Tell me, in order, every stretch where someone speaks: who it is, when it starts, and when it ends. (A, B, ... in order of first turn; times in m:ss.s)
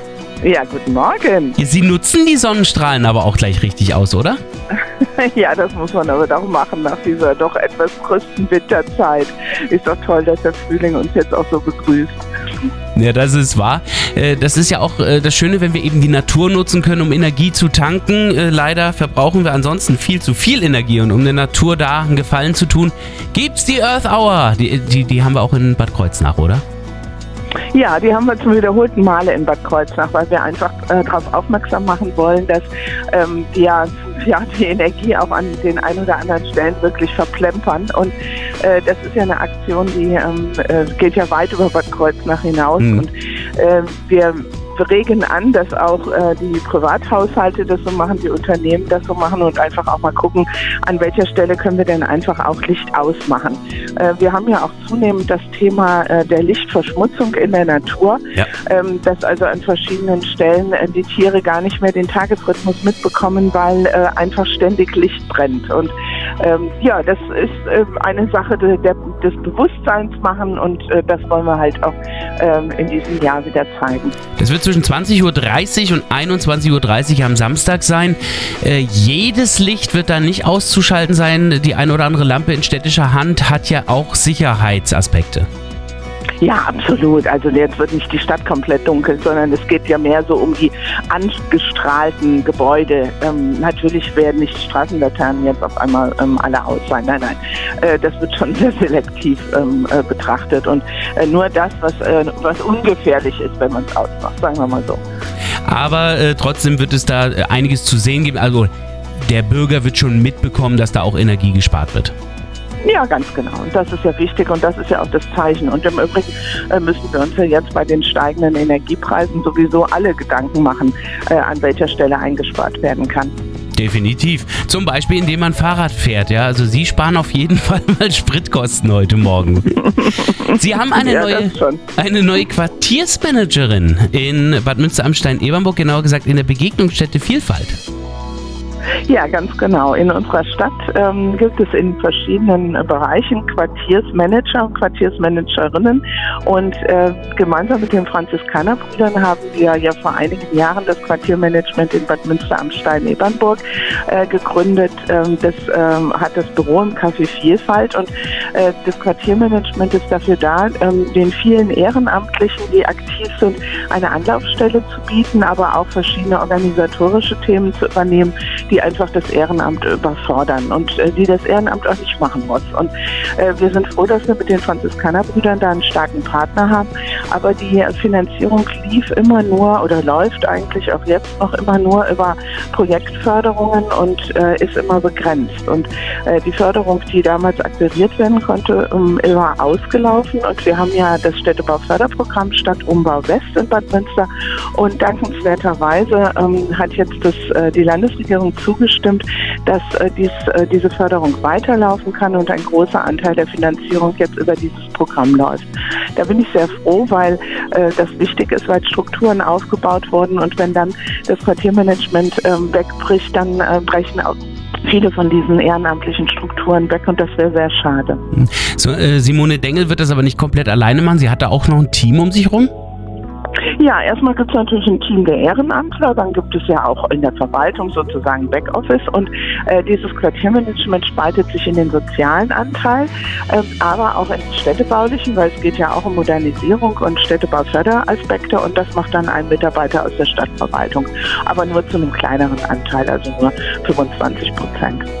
0:00.4-0:01.6 A
0:01.6-0:04.4 B
0:04.7-0:12.2 A
0:12.9-0:26.6 B
0:27.7-1:14.1 A
1:14.4-1:25.5 B
1:26.4-1:45.0 A
1:45.6-1:52.1 B
1:52.8-2:03.3 A
2:03.7-2:17.8 B
2:10.0-2:11.8 A
2:19.1-3:38.2 A
3:38.3-3:42.7 B
3:43.8-4:05.1 A